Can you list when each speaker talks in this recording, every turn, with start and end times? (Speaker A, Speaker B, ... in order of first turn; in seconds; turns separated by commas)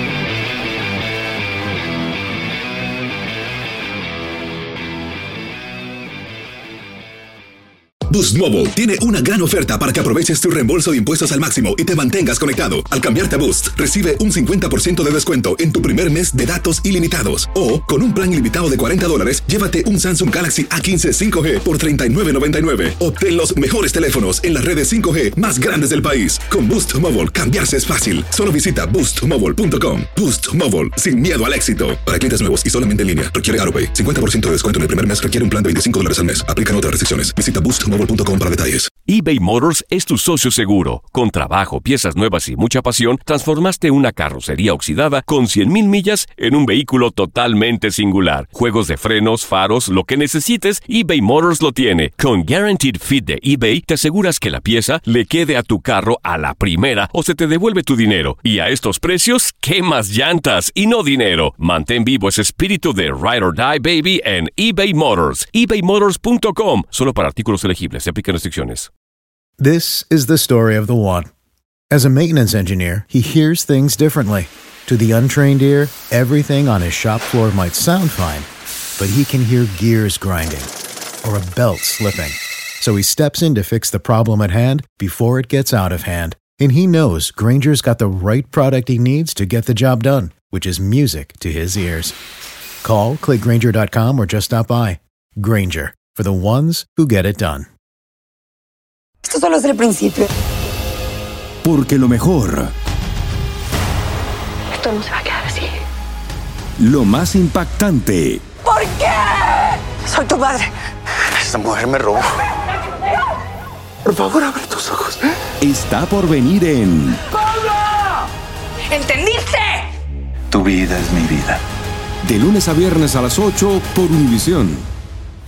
Speaker A: 8.1-38.9, Speaker B: 39.1-68.9, Speaker C: 69.6-71.3, Speaker C: 71.9-78.5, Speaker C: 79.0-80.7, Speaker C: 81.2-92.2, Speaker C: 92.8-97.7, Speaker D: 99.2-100.3, Speaker E: 101.6-102.7, Speaker D: 104.8-105.7, Speaker E: 106.8-108.4, Speaker D: 108.7-110.7, Speaker F: 111.4-112.2, Speaker F: 114.1-115.2, Speaker E: 115.6-117.2, Speaker D: 119.0-119.6, Speaker E: 122.2-124.8